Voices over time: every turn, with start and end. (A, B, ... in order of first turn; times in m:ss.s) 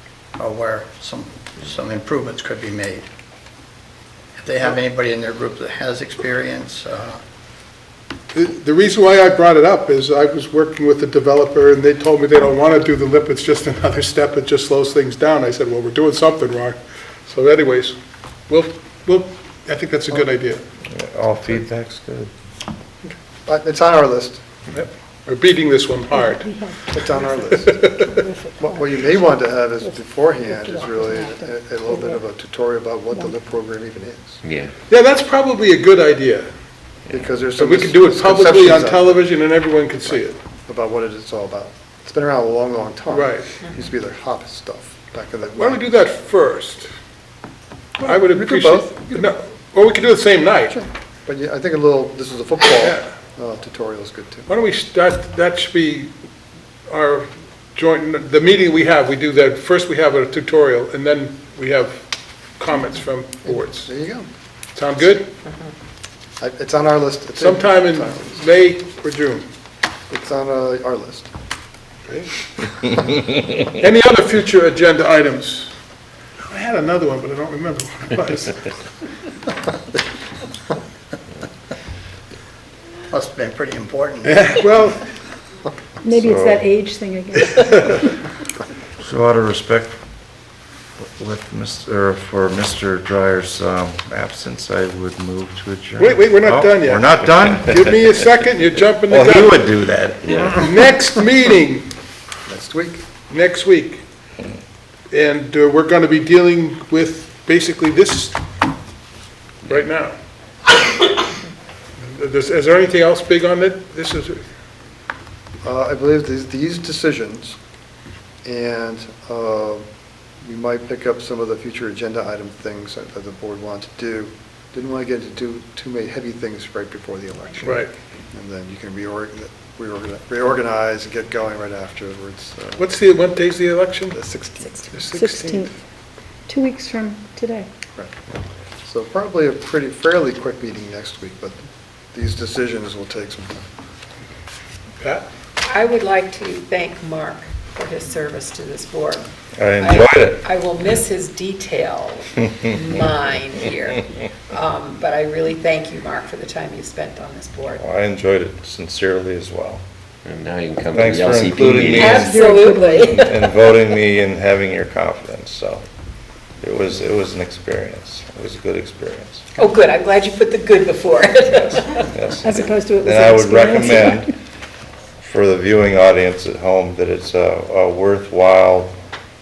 0:00.4-0:03.1 A
0:04.4-0:07.2 A
0:08.3-0:18.0 B
0:18.5-0:20.6 B
0:20.9-0:22.3 C
0:23.0-0:24.4 D
0:24.7-0:26.4 B
0:26.1-0:32.2 E
0:26.9-0:27.9 D
0:27.6-0:28.0 B
0:28.6-0:34.4 D
0:34.4-0:34.7 F
0:34.9-0:36.5 B
0:37.1-0:37.4 F
0:37.1-0:39.4 D
0:37.5-0:40.4 B
0:40.1-0:45.9 D
0:43.1-0:43.5 B
0:45.6-0:46.9 B
0:48.0-0:49.3 D
0:48.0-0:50.8 B
0:50.7-0:54.5 D
0:52.8-0:53.0 B
0:54.5-0:56.1 B
0:56.9-1:02.0 B
1:02.6-1:03.9 B
1:03.4-1:04.3 D
1:04.7-1:05.2 B
1:05.4-1:05.7 G
1:06.4-1:08.4 D
1:07.4-1:09.4 B
1:10.1-1:11.3 D
1:13.7-1:15.7 B
1:16.5-1:18.6 B
1:23.1-1:25.0 A
1:24.2-1:25.0 B
1:26.0-1:28.1 E
1:26.2-1:26.6 C
1:29.0-1:30.0 C
1:31.0-1:38.0 C
1:36.0-1:39.6 B
1:39.1-1:40.7 C
1:40.6-1:41.9 B
1:42.5-1:43.0 D
1:43.3-1:44.0 B
1:45.1-1:48.4 B
1:49.7-1:50.1 B
1:52.0-1:54.4 B
1:55.6-1:57.6 D
1:58.4-1:59.8 D
2:00.4-2:12.9 D
2:07.6-2:07.9 B
2:12.8-2:14.1 B
2:14.1-2:15.7 D
2:14.9-2:15.8 E
2:16.5-2:17.7 E
2:18.8-2:21.6 D
2:22.1-2:23.7 D
2:25.6-2:29.2 G
2:29.6-2:30.4 C
2:29.8-2:37.8 G
2:37.7-2:39.8 C
2:40.2-2:42.3 F
2:40.9-2:42.3 C
2:41.8-2:43.3 G
2:42.0-2:43.2 E
2:43.1-2:45.8 C
2:46.6-2:49.4 C
2:49.6-2:52.1 G
2:52.1-2:54.3 C
2:52.4-2:54.3 E
2:55.2-2:58.9 C